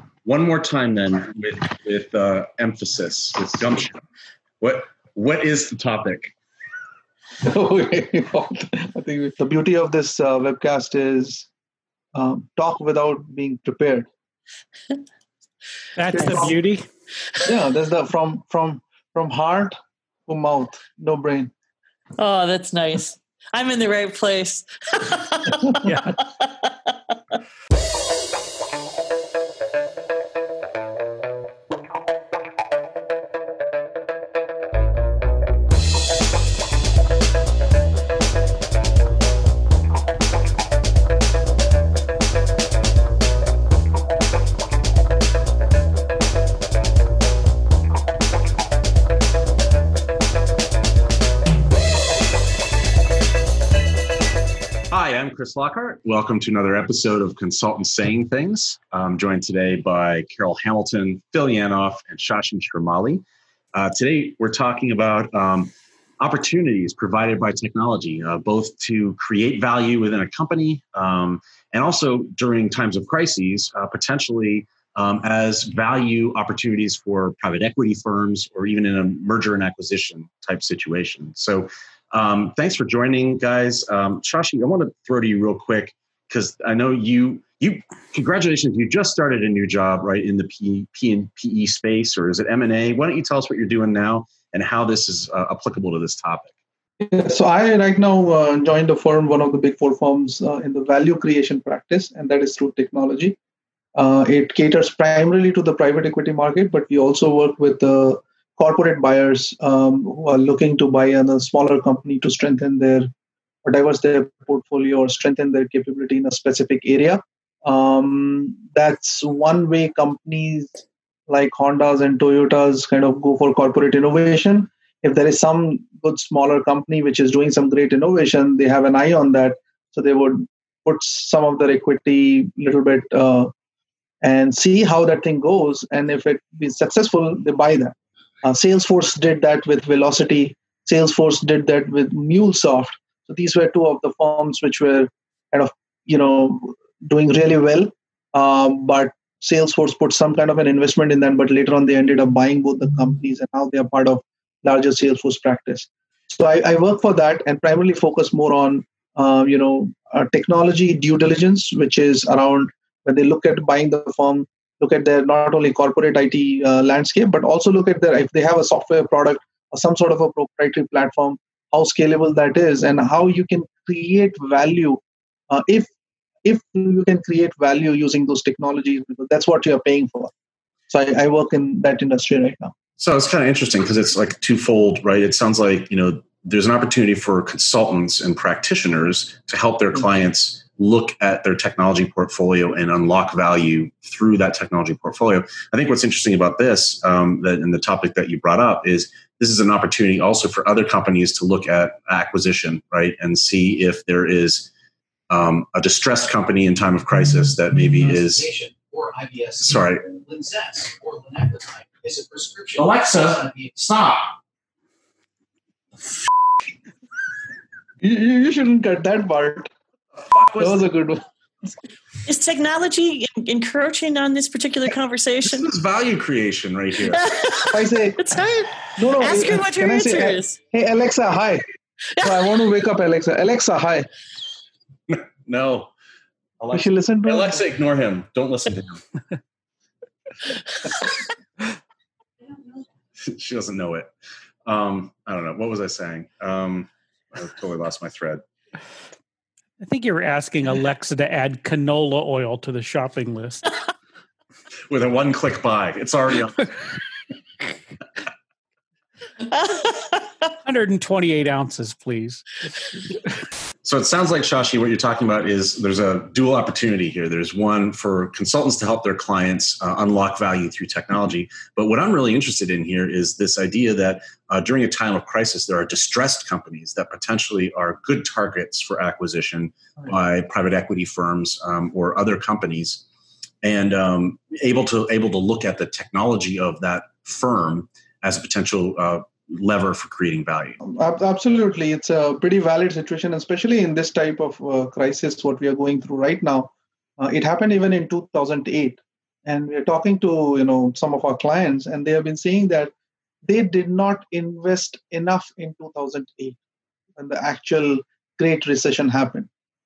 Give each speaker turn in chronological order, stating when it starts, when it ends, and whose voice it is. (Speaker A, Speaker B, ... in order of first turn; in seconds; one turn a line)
Speaker A: 0.2-4.0
Speaker A: 4.6-6.3
Speaker B: 7.4-11.5
Speaker B: 12.1-14.1
Speaker C: 15.9-16.9
Speaker B: 16.1-16.5
Speaker B: 17.4-21.5
Speaker D: 22.2-26.9
Speaker C: 25.8-26.2
Speaker A: 54.9-96.5
Speaker B: 97.0-103.3
Speaker B: 104.0-113.1
Speaker B: 113.6-133.5
Speaker B: 134.2-175.9
Speaker B: 176.4-180.3
Speaker B: 180.9-182.7
Speaker A: 183.0-204.7
Speaker A: 205.3-208.4
Speaker E: 208.0-214.3
Speaker A: 209.6-210.0
Speaker B: 218.0-219.7
Speaker A: 220.2-220.8
Speaker B: 220.6-221.2
Speaker D: 222.2-225.7
Speaker A: 225.5-227.2
Speaker D: 227.1-230.6
Speaker B: 227.6-228.2
Speaker B: 228.9-231.6
Speaker B: 232.2-234.1
Speaker A: 235.1-235.9
Speaker A: 236.6-239.0
Speaker B: 236.7-237.6
Speaker A: 243.2-244.1
Speaker A: 244.7-248.4
Speaker C: 249.8-253.7
Speaker A: 254.9-256.9
Speaker D: 259.5-260.1
Speaker C: 260.6-262.6
Speaker A: 263.8-283.0
Speaker A: 283.6-290.8
Speaker B: 290.8-302.9
Speaker B: 303.4-306.6
Speaker B: 307.2-309.5